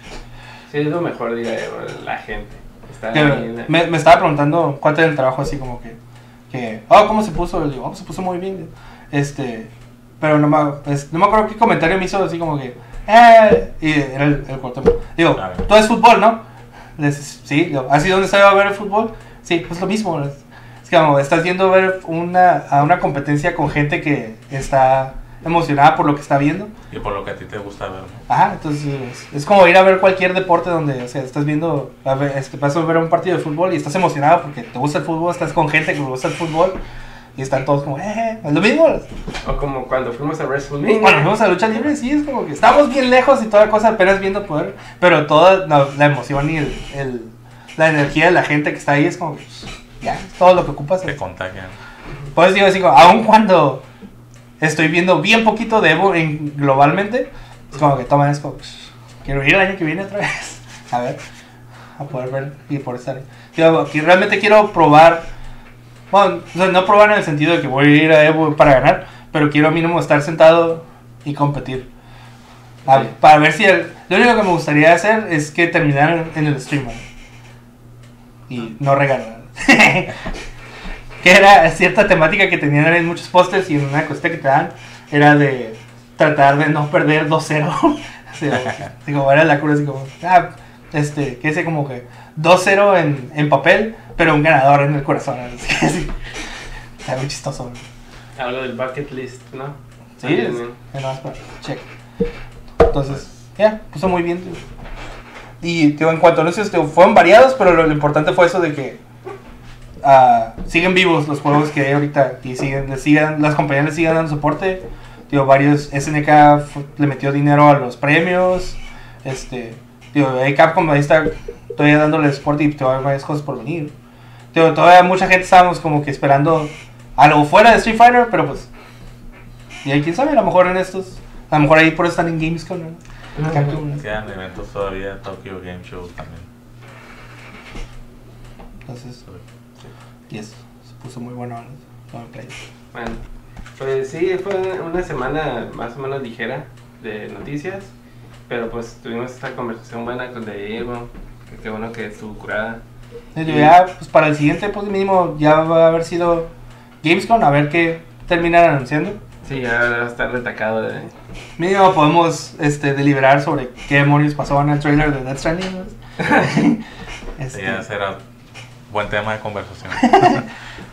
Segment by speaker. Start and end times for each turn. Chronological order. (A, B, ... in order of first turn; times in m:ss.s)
0:00.7-0:03.7 A
0:03.1-0:06.0 B
0:06.5-0:16.4 B
0:15.4-0:15.6 C
0:17.0-0:26.7 B
0:26.9-0:28.2 C
0:28.3-0:36.8 B
0:37.4-0:39.1 B
0:39.4-0:41.3 A
0:41.0-0:51.2 B
0:51.0-0:51.8 C
0:52.3-0:53.8 B
0:54.6-1:01.2 B
1:02.0-1:05.3 B
1:06.1-1:11.9 B
1:12.8-1:13.1 A
1:12.8-1:17.0 B
1:18.5-1:20.2 B
1:21.2-1:36.2 B
1:37.0-1:37.8 B
1:38.4-1:40.8 A
1:40.2-1:41.9 B
1:42.8-1:44.6 B
1:45.6-1:49.0 B
1:50.0-2:03.9 B
2:04.5-2:08.7 B
2:09.8-2:14.0 B
2:13.4-2:13.8 A
2:13.8-2:16.5 C
2:18.8-2:19.2 B
2:20.3-2:22.6 B
2:22.9-2:23.2 A
2:23.8-2:27.9 A
2:28.5-2:32.8 A
2:33.3-2:39.2 B
2:33.4-2:33.7 A
2:39.4-2:41.1 A
2:41.6-2:46.8 B
2:47.4-2:47.8 B
2:47.5-2:48.2 C
2:48.9-2:50.5 C
2:50.0-2:50.4 B